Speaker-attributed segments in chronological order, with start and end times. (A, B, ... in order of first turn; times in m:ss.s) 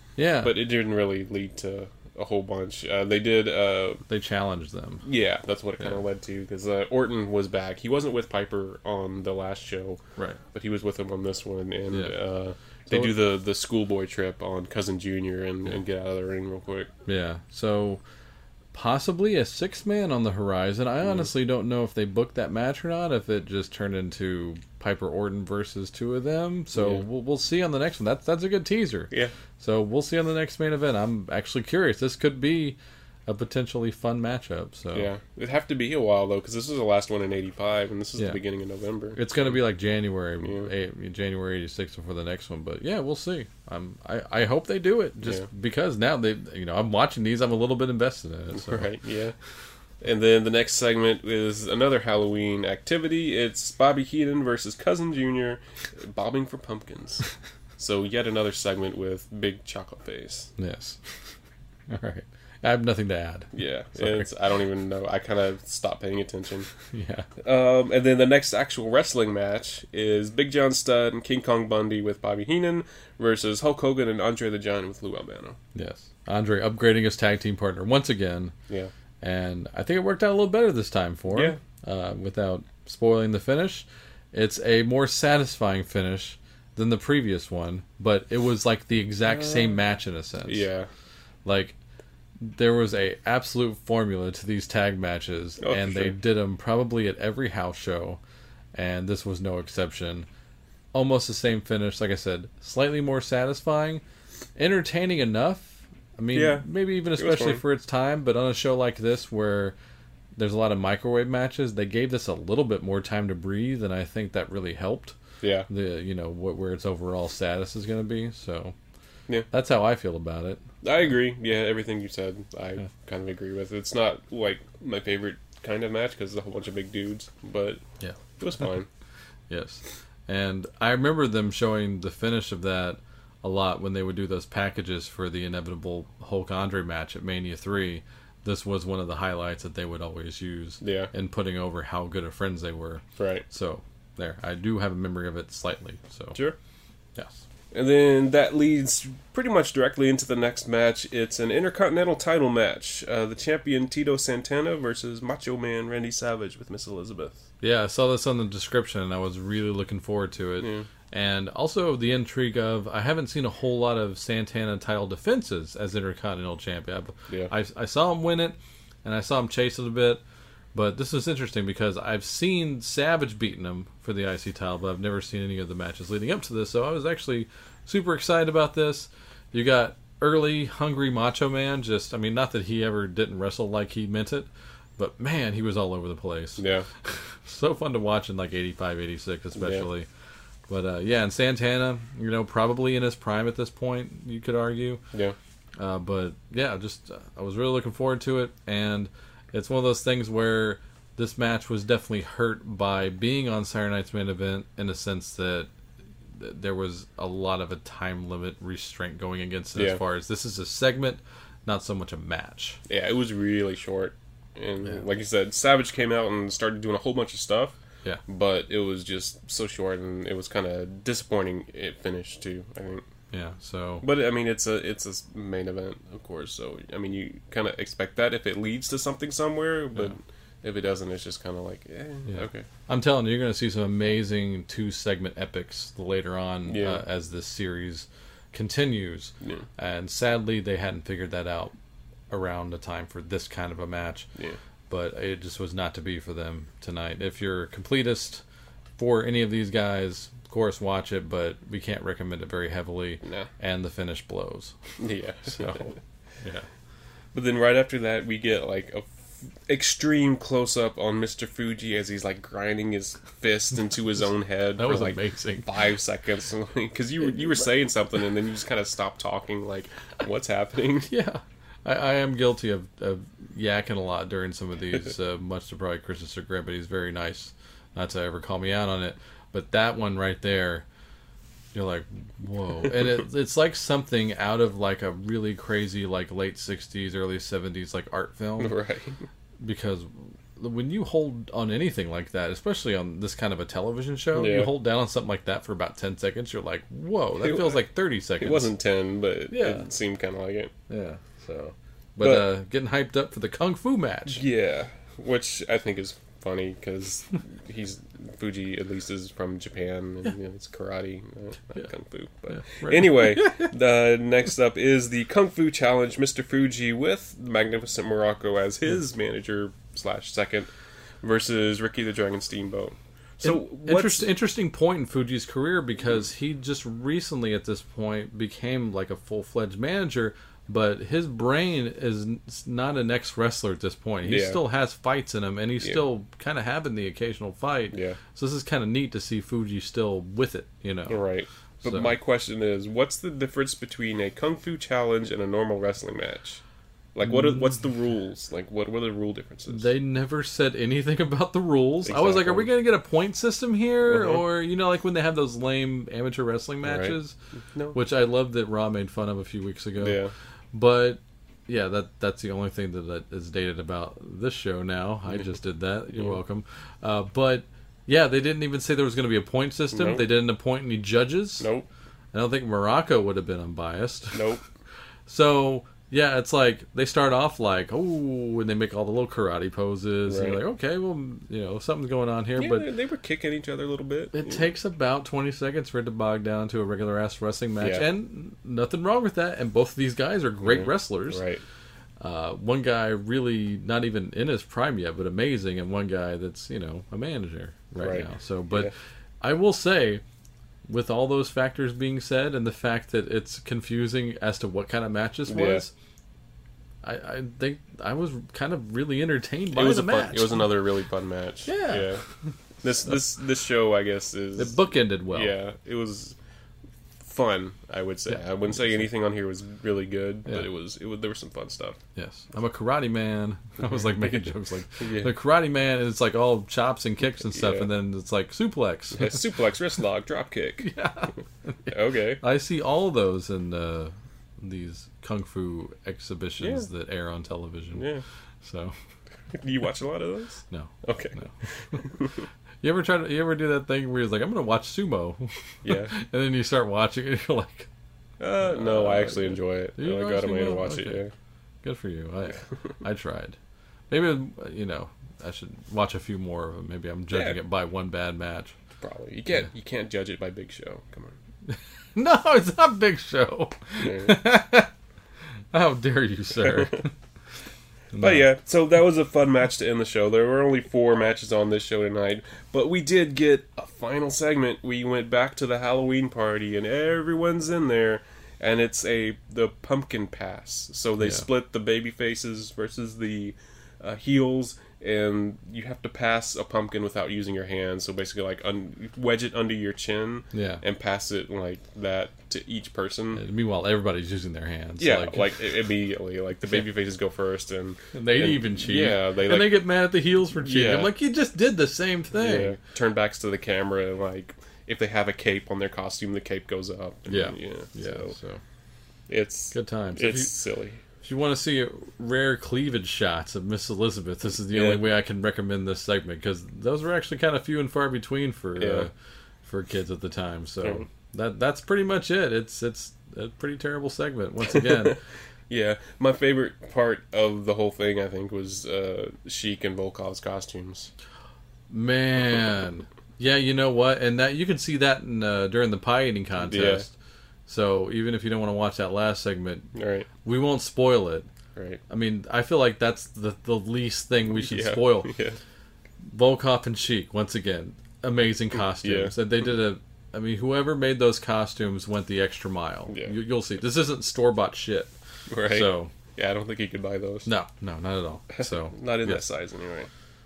0:00.2-0:00.6 A
0:00.4-0:04.0 B
0:04.1-0:05.0 A
0:05.0-0:10.0 B
0:10.5-0:16.9 B
0:11.9-0:12.2 A
0:12.9-0:13.1 A
0:17.0-0:18.0 A
0:18.7-0:35.1 A
0:26.7-0:27.0 B
0:34.9-0:39.6 B
0:39.1-0:48.9 A
0:40.4-0:40.7 B
0:45.2-0:45.5 B
0:48.5-0:49.3 B
0:50.0-0:57.2 B
0:57.8-1:00.5 B
1:00.6-1:01.0 A
1:01.9-1:04.3 A
1:03.5-1:06.7 B
1:06.9-1:07.3 A
1:07.4-1:15.6 B
1:15.7-1:18.5 A
1:19.2-1:30.7 A
1:21.3-1:21.6 B
1:30.5-1:30.9 B
1:31.4-1:31.7 A
1:32.4-1:38.2 A
1:35.6-1:36.2 B
1:38.7-1:40.3 A
1:40.9-1:44.0 A
1:44.6-1:49.7 A
1:46.3-1:47.6 B
1:50.4-1:55.1 A
1:55.4-1:55.7 B
1:55.7-1:58.7 A
1:59.5-2:00.6 A
2:00.8-2:07.8 B
2:08.4-2:08.9 B
2:09.5-2:26.4 A
2:20.8-2:21.1 B
2:23.2-2:23.4 B
2:27.2-2:27.4 A
2:27.7-2:37.4 B
2:37.6-2:50.2 A
2:40.6-2:40.8 B
2:50.7-3:10.1 A
3:06.6-3:06.8 B
3:09.6-3:09.8 B
3:10.7-3:15.0 A
3:15.8-3:25.7 A
3:26.3-3:32.8 A
3:29.7-3:30.0 B
3:32.9-3:43.0 B
3:43.3-3:44.1 A
3:44.0-3:52.6 B
3:52.3-4:01.7 A
3:56.7-3:57.0 B
3:59.4-3:59.6 B
4:02.3-4:04.2 A
4:04.9-4:08.4 A
4:09.0-4:14.8 A
4:13.2-4:13.5 B
4:15.0-4:16.0 B
4:15.6-4:15.8 A
4:17.3-4:31.1 B
4:24.8-4:25.8 A
4:31.1-4:40.8 A
4:41.7-4:48.8 A
4:48.6-4:49.2 B
4:49.6-4:58.7 A
4:54.3-4:54.7 B
4:57.4-4:57.8 B
4:58.4-5:00.7 B
4:59.5-4:59.8 A
5:00.9-5:04.4 A
5:02.2-5:02.5 B
5:04.3-5:20.7 B
5:12.5-5:13.7 A
5:21.2-5:24.3 B
5:23.4-5:41.2 A
5:34.2-5:34.6 B
5:37.9-5:38.2 B
5:41.1-5:46.6 B
5:41.8-5:42.1 A
5:47.1-5:49.9 B
5:47.3-5:47.7 A
5:49.7-5:57.3 A
5:52.0-5:52.7 B
5:54.0-5:54.4 B
5:56.8-5:57.2 B
5:57.9-6:00.2 A
6:00.0-6:00.3 B
6:00.7-6:11.7 A
6:09.9-6:10.2 B
6:11.6-6:11.9 B
6:12.3-6:14.6 A
6:14.3-6:14.6 B
6:15.3-6:22.9 A
6:20.3-6:20.6 B
6:22.6-6:24.7 B
6:24.3-6:31.4 A
6:27.8-6:28.1 B
6:30.6-6:31.6 B
6:32.2-6:40.2 A
6:38.0-6:38.9 B
6:40.9-6:45.9 A
6:45.5-6:45.8 B
6:47.0-6:50.7 A
6:49.7-6:52.2 B
6:51.7-6:52.1 A
6:52.8-6:56.4 B
6:54.6-6:55.6 A
6:57.2-7:02.0 B
6:58.3-6:59.1 A
7:02.2-7:09.4 A
7:03.8-7:05.3 B
7:07.5-7:07.9 B
7:09.1-7:10.9 B
7:10.8-7:18.1 A
7:11.9-7:12.4 B
7:16.6-7:16.9 B
7:17.9-7:18.2 B
7:18.6-7:18.9 A
7:19.5-7:22.4 B
7:20.7-7:21.5 A
7:22.8-7:27.9 A
7:25.8-7:26.1 B
7:28.4-7:31.3 B
7:28.6-7:31.2 A
7:31.8-7:33.6 A
7:34.1-7:38.7 A
7:37.3-7:37.6 B
7:39.0-7:41.4 B
7:41.7-7:44.9 A
7:44.0-7:44.4 B
7:45.7-7:47.1 A
7:46.6-7:47.0 B
7:48.1-7:48.4 A
7:48.2-8:13.4 B
8:10.5-8:10.8 A
8:13.3-8:15.5 A
8:15.0-8:19.8 B
8:18.1-8:22.8 A
8:20.5-8:21.1 B
8:22.3-8:28.4 B
8:27.3-8:28.6 A
8:29.3-8:31.0 B
8:29.7-8:30.5 A
8:31.2-8:39.1 A
8:34.7-8:35.0 B
8:38.8-8:39.1 B
8:39.6-8:45.2 A
8:44.7-8:45.1 B
8:45.7-8:51.1 B
8:51.9-8:57.1 A
8:56.6-8:57.0 B
8:57.7-8:59.9 A
8:59.9-9:00.3 B
9:00.4-9:01.5 A
9:02.1-9:05.3 A
9:04.6-9:05.6 B
9:06.2-9:15.1 A
9:09.0-9:09.3 B
9:13.1-9:13.3 B
9:15.5-9:17.5 B
9:15.6-9:16.1 A
9:17.4-9:19.4 A
9:18.6-9:20.1 B